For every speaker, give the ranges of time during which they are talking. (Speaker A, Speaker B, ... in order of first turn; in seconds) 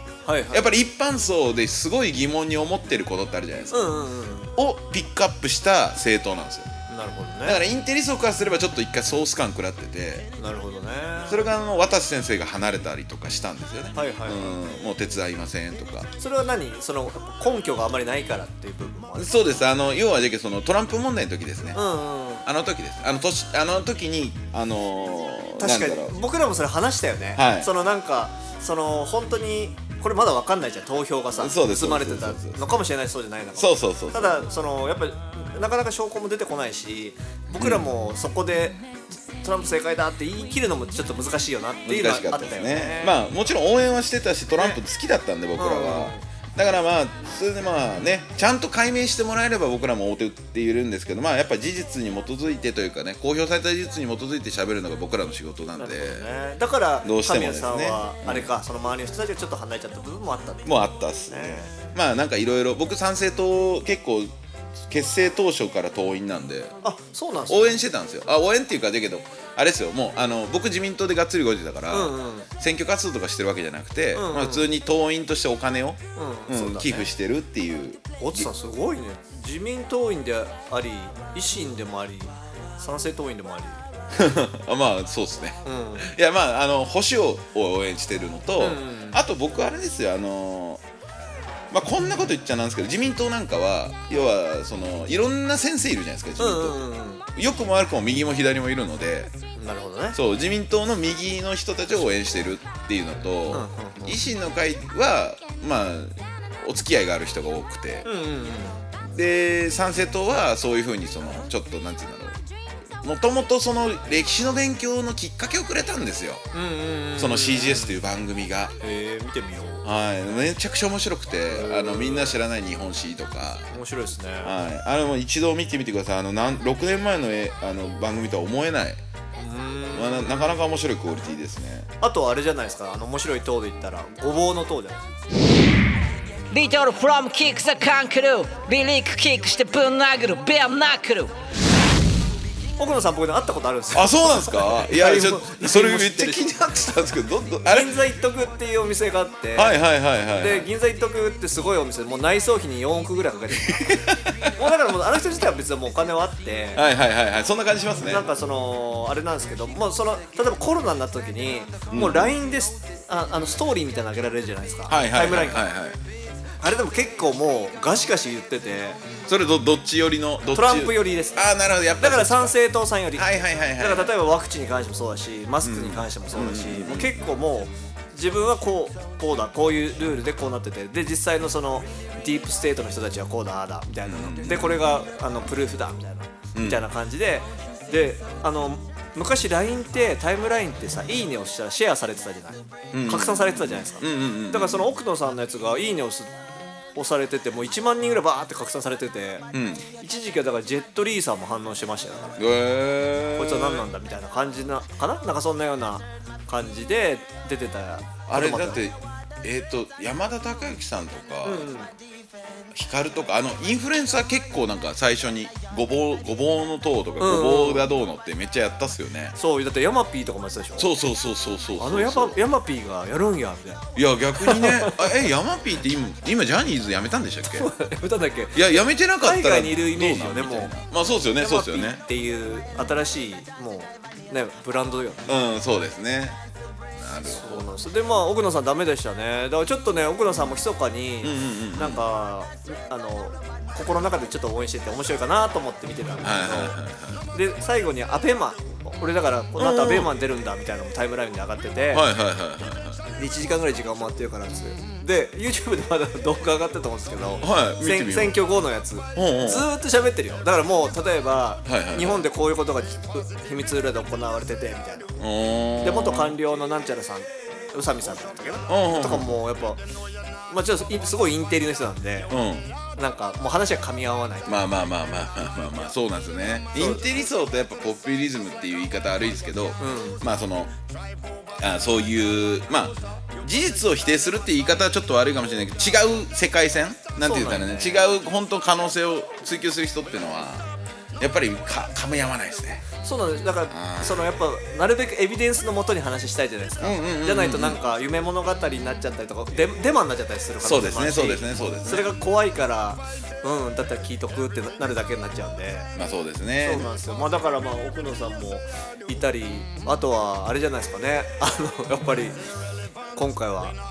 Speaker A: 0.2-0.7, 3.7-4.5, 6.9-7.6, 10.4-11.5, 13.9-14.5, 16.2-19.4, 21.7-22.4, 25.6-38.8, 39.4-43.2, 45.6-46.2, 55.8-61.8, 66.8-67.8, 71.9-72.5, 74.1-74.7, 76.2-77.1, 78.2-83.8, 85.6-86.1, 88.6-89.2, 96.4-97.2, 99.6-100.2, 103.5-104.2, 108.0-108.9, 116.5-118.0, 118.8-119.8, 121.5-122.4, 123.7-124.5, 129.4-130.6, 132.0-135.1, 142.8-146.4, 147.7-149.8, 150.4-154.0, 154.6-156.8, 158.0-165.7, 166.6-169.0, 170.5-196.4, 196.9-202.4, 203.3-208.8, 211.4-211.9, 217.2-217.9, 219.4-220.9, 221.8-225.1, 227.5-230.8, 231.4-235.3, 237.2-246.8, 247.3-252.1, 253.2-265.2, 265.8-269.8, 270.5-272.3, 272.9-274.6, 276.8-277.1, 279.8-280.2, 287.2-288.1, 293.0-305.9, 306.6-312.4, 313.1-313.8
Speaker B: 0.5-3.9, 4.6-6.7, 7.5-10.3, 11.3-16.1, 19.2-21.8, 22.4-26.1, 27.4-27.7, 31.4-32.6, 33.5-34.5, 37.6-37.9, 41.9-56.3, 57.0-58.5, 60.7-64.3, 64.9-66.8, 67.5-78.5, 84.1-90.8, 91.7-99.3, 100.1-108.1, 109.0-112.4, 113.0-116.5, 117.2-118.8, 119.8-123.7, 124.4-129.0, 129.9-131.9, 143.9-147.9, 149.6-150.7, 153.7-154.5, 156.8-158.3, 161.9-162.3, 164.9-166.0, 169.3-172.6, 173.1-174.1, 175.6-177.2, 184.1-184.9, 186.6-186.8, 192.9-194.9, 199.5-199.8, 202.4-203.9, 208.3-211.7, 212.7-219.4, 220.8-222.4, 223.9-227.7, 228.5-232.0, 235.3-236.4, 237.0-237.7, 241.2-242.0, 246.2-247.2, 249.6-250.1, 251.9-253.0, 257.4-258.4, 259.1-259.7, 261.7-262.2, 265.2-266.4, 268.7-269.3, 272.3-272.7, 274.5-280.7, 281.6-290.7, 291.2-292.9, 293.7-294.3, 296.8-297.8, 300.6-302.1, 306.0-306.9
Speaker C: 136.5-141.3